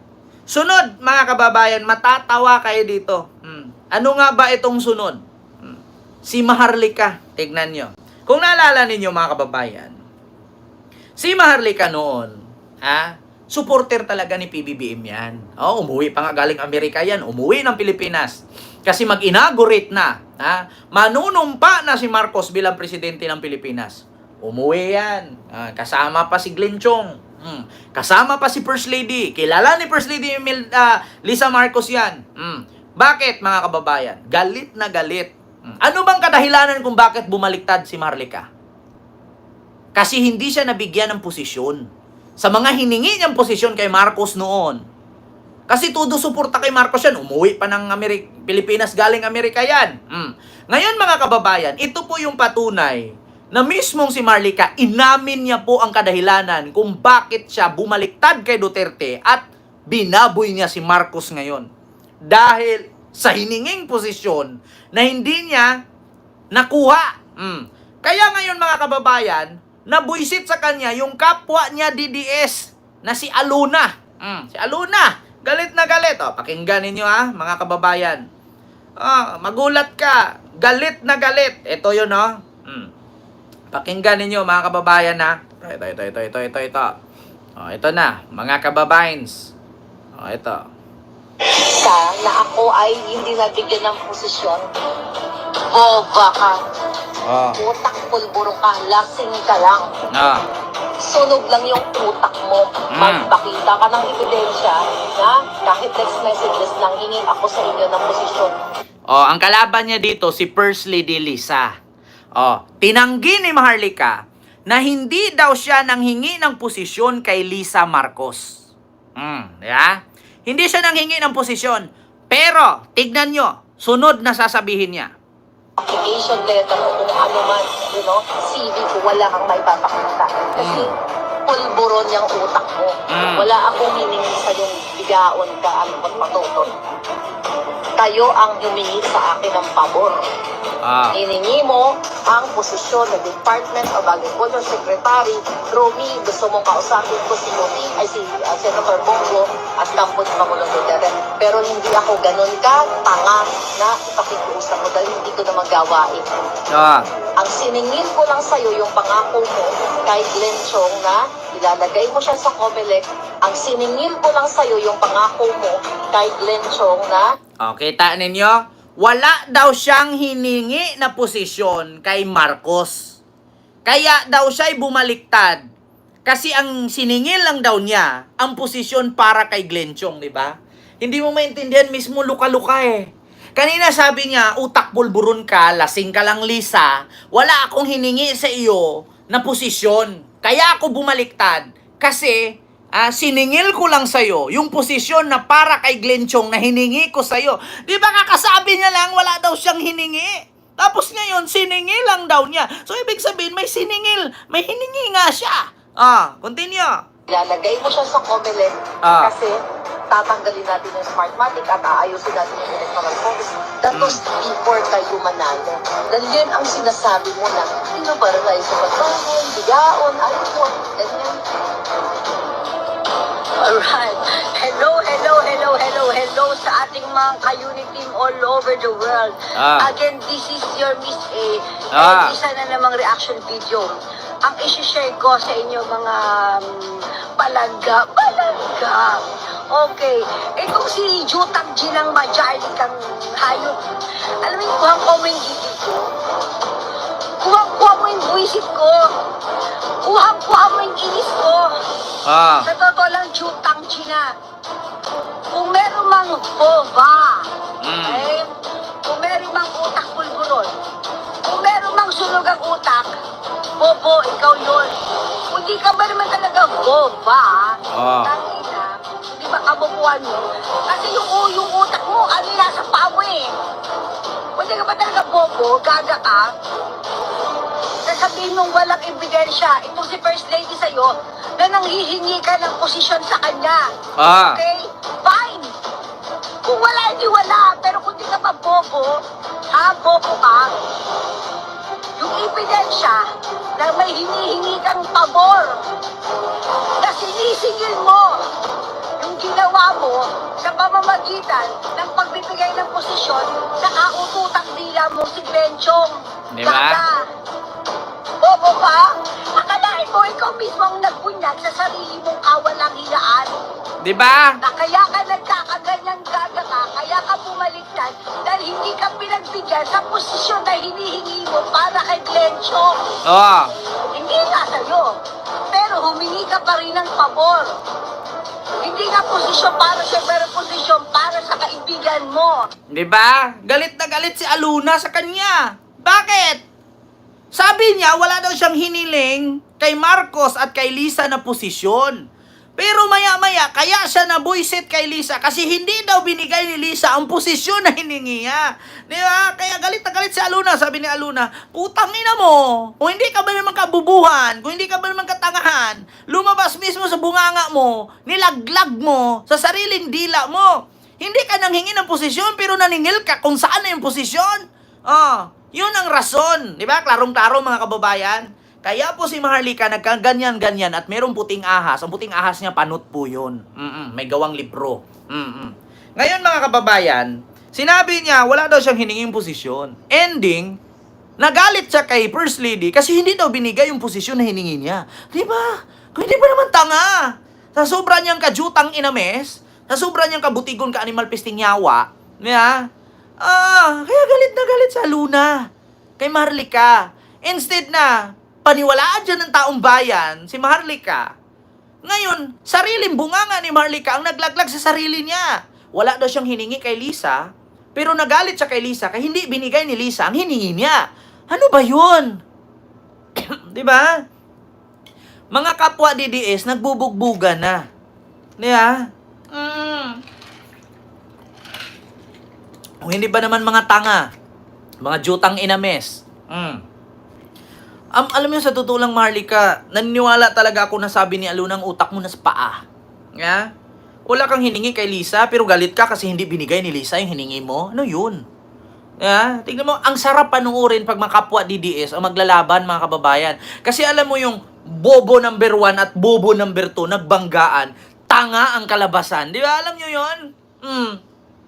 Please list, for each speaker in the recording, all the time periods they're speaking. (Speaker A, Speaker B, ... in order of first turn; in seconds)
Speaker A: 0.5-10.0, 11.2-38.5, 40.0-41.8, 42.4-44.8, 45.7-61.7, 62.3-65.7, 66.5-78.2, 79.0-82.9, 83.7-86.9, 87.6-89.5, 90.2-90.6, 97.2-97.6, 100.1-100.4, 102.9-103.3, 109.1-111.7, 112.4-114.2, 114.7-118.5, 119.2-125.1, 130.6-130.9, 133.1-133.5, 140.8-141.2, 156.7-157.1, 167.6-173.2, 173.8-175.7, 176.2-192.4, 192.9-207.0, 209.0-209.3, 213.9-214.2, 229.6-229.9, 231.9-232.3, 252.2-252.7, 257.8-258.2, 267.9-268.3, 284.2-284.6, 306.5-307.0, 314.0-314.6, 323.3-323.7, 332.9-336.6, 337.5-342.2, 342.8-380.8, 381.4-387.1, 387.8-392.9, 393.4-395.6, 396.2-401.3, 402.0-412.3, 413.4-414.1, 415.5-417.8, 418.6-419.0, 419.5-420.2, 423.1-424.2, 425.0-426.8, 428.2-432.8, 433.4-433.7, 434.3-438.4, 439.2-451.2
Speaker B: 91.8-94.7, 95.7-96.6, 97.6-99.9, 101.0-108.5, 125.8-130.9, 131.5-136.7, 138.0-140.2, 141.1-156.3, 157.4-167.2, 207.3-209.5, 210.1-221.4
Speaker C: 223.6-246.1, 247.4-249.2, 250.0-251.8, 252.7-254.3, 255.5-257.5, 258.0-258.5, 259.1-260.7, 261.4-263.2, 263.8-265.0, 265.5-273.6, 274.6-276.5, 278.1-283.8, 284.4-285.7, 286.6-290.8, 292.2-293.2, 293.8-295.8, 297.0-298.5, 299.2-307.3, 308.4-313.6, 314.6-323.0, 324.1-325.2, 325.7-327.7, 328.8-332.7